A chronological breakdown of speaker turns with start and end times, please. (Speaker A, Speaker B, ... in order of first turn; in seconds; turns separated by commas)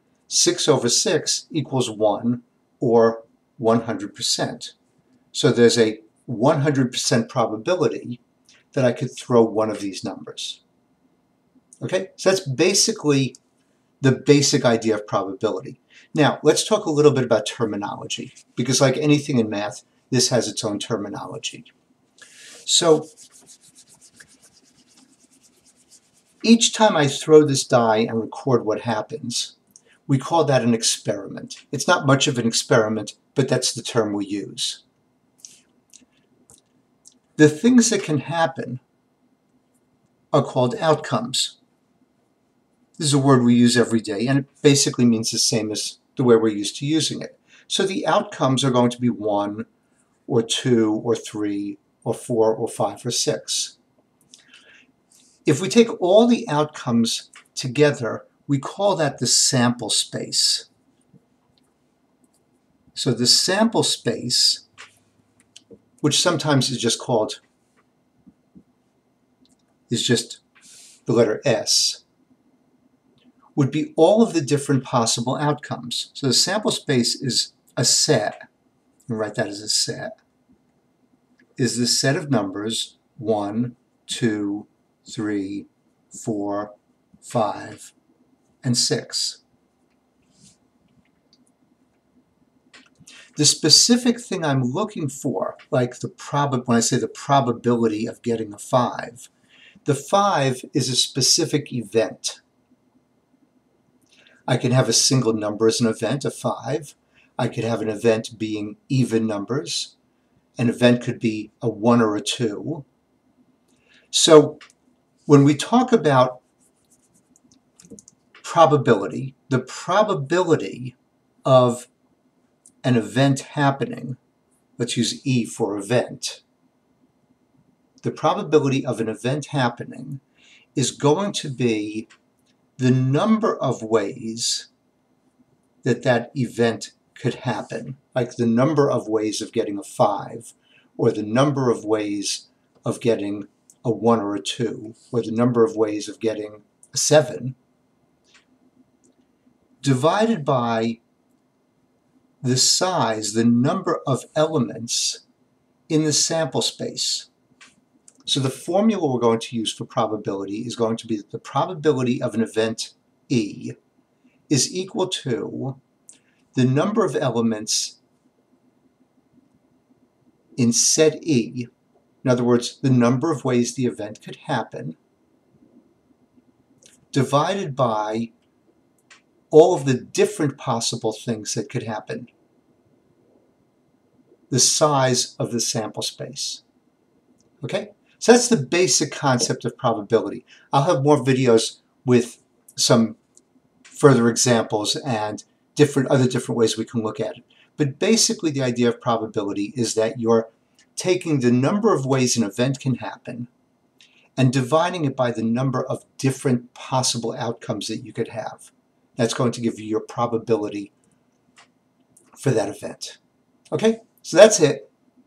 Speaker A: 0.3-4.7, Speaker A: 5.3-8.2, Speaker A: 8.7-10.6, Speaker A: 11.8-13.4, Speaker A: 14.0-21.7, Speaker A: 22.6-23.1, Speaker A: 26.4-29.5, Speaker A: 30.1-34.8, Speaker A: 37.4-38.8, Speaker A: 40.3-41.5, Speaker A: 43.0-49.7, Speaker A: 50.3-53.8, Speaker A: 55.5-60.7, Speaker A: 62.9-64.6, Speaker A: 66.0-67.4, Speaker A: 69.9-70.4, Speaker A: 71.0-72.0, Speaker A: 73.5-78.4, Speaker A: 79.1-80.1, Speaker A: 81.6-87.9, Speaker A: 88.6-89.4, Speaker A: 93.3-99.3, Speaker A: 99.8-102.4, Speaker A: 104.5-109.9, Speaker A: 110.6-112.8, Speaker A: 114.1-114.6, Speaker A: 115.3-116.4, Speaker A: 118.4-121.9, Speaker A: 122.8-124.2, Speaker A: 124.8-126.4, Speaker A: 128.0-130.2, Speaker A: 130.7-132.1, Speaker A: 132.8-134.7, Speaker A: 135.8-147.6, Speaker A: 149.8-151.0, Speaker A: 152.4-155.2, Speaker A: 155.9-157.3, Speaker A: 158.2-163.7, Speaker A: 164.5-165.8, Speaker A: 166.5-168.0, Speaker A: 170.6-171.7, Speaker A: 172.2-175.0, Speaker A: 177.1-178.3, Speaker A: 179.5-182.3, Speaker A: 184.5-186.6, Speaker A: 187.6-193.2, Speaker A: 193.9-203.5, Speaker A: 204.3-210.9, Speaker A: 212.4-213.2, Speaker A: 213.7-214.9